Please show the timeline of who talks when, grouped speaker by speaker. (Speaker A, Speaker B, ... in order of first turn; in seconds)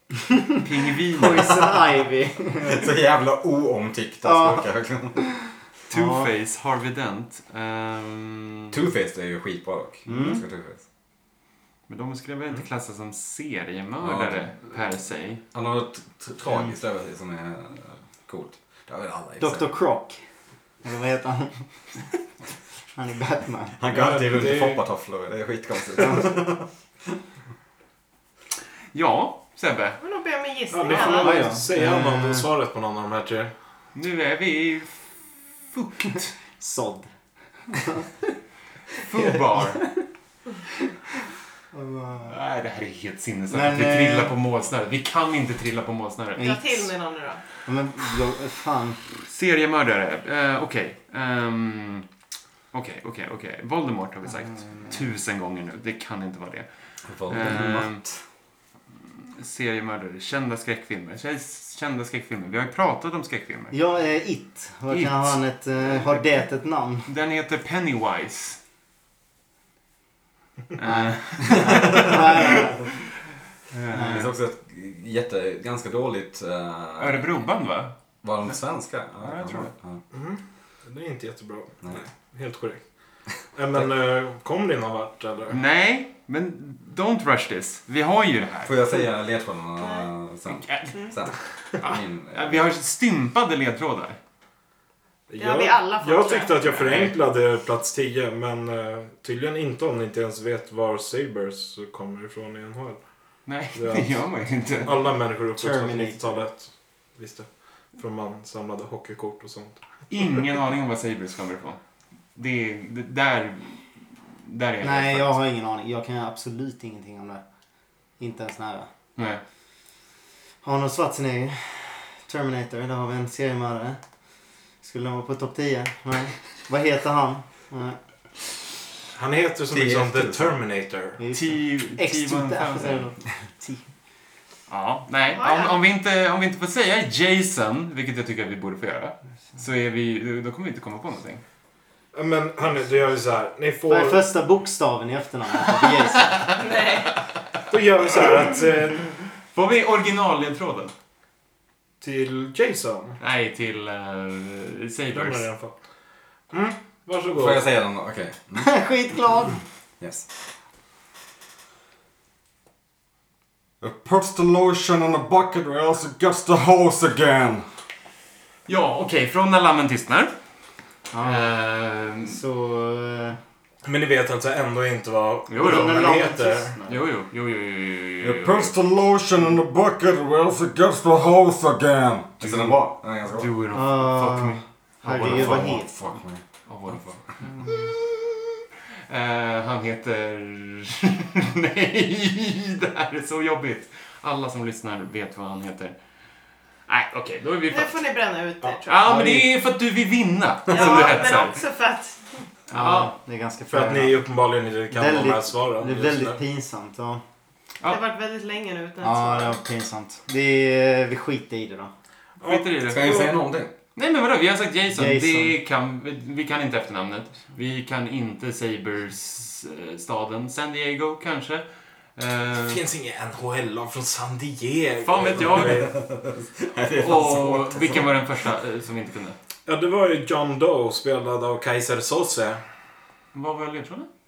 Speaker A: 0.2-0.6, 1.1-2.9, 4.2-4.7, 5.9-6.3, 10.1-10.4, 19.4-20.2, 20.8-22.1, 22.9-23.9, 31.0-32.5, 36.6-37.1, 37.7-38.1, 39.2-40.1, 41.7-42.4, 43.5-44.3, 46.4-46.9, 47.6-49.0, 63.7-67.1, 70.9-72.9, 73.9-74.3, 105.5-106.3, 114.8-117.4, 118.2-118.9, 120.6-124.0, 124.8-128.0, 131.2-133.9, 143.9-146.5, 158.6-159.6, 171.1-171.5, 172.2-173.4, 175.6-177.1, 183.7-185.9, 187.4-187.8, 199.1-199.4, 202.7-204.2, 204.9-207.2, 209.0-211.9, 214.9-215.6
Speaker B: 0.6-1.8, 5.9-8.8, 11.9-15.4, 28.9-30.0, 34.0-35.1, 35.7-36.3, 39.0-39.9, 42.3-46.6, 49.2-52.1, 52.7-56.7, 57.3-58.0, 59.4-63.8, 64.9-65.4, 67.1-68.6, 70.8-73.0, 73.7-74.3, 77.0-77.9, 79.2-79.7, 85.5-88.8, 90.5-94.2, 96.7-97.2, 103.5-105.0, 110.1-111.8, 112.3-115.4, 119.2-119.4, 131.3-133.1, 134.7-141.4, 146.3-146.6, 149.5-150.9, 153.2-155.5, 168.7-170.3, 171.2-172.4, 175.5-176.2, 176.9-178.7, 182.4-186.2, 186.7-187.2, 189.1-196.0, 196.9-198.1, 198.9-201.6, 202.7-203.1, 212.4-213.2, 214.0-222.8, 225.0-225.9, 227.0-229.4, 233.3-234.1
Speaker C: 2.6-5.2, 8.7-10.8, 14.0-14.6, 15.5-19.7, 23.8-26.7, 57.1-58.2, 74.0-77.3, 78.2-80.0, 88.7-92.7, 129.7-130.6, 157.3-158.7, 160.0-160.3, 163.8-167.7, 178.2-183.5, 185.2-187.1, 212.9-213.7, 225.5-228.2
Speaker D: 23.9-24.8, 30.7-33.5, 80.1-82.8, 83.5-85.6, 95.3-103.0, 103.8-104.2, 104.8-109.8, 129.1-131.2, 142.1-144.3, 147.7-149.1, 152.0-153.2, 155.1-155.8, 156.5-157.6, 173.8-176.7, 203.7-206.4, 212.4-213.4, 222.7-225.9, 229.7-232.6
Speaker E: 30.0-31.6, 46.4-47.4, 89.8-90.1, 95.4-96.9, 135.3-135.8, 146.6-147.1, 197.7-199.4, 200.7-202.4, 207.8-209.6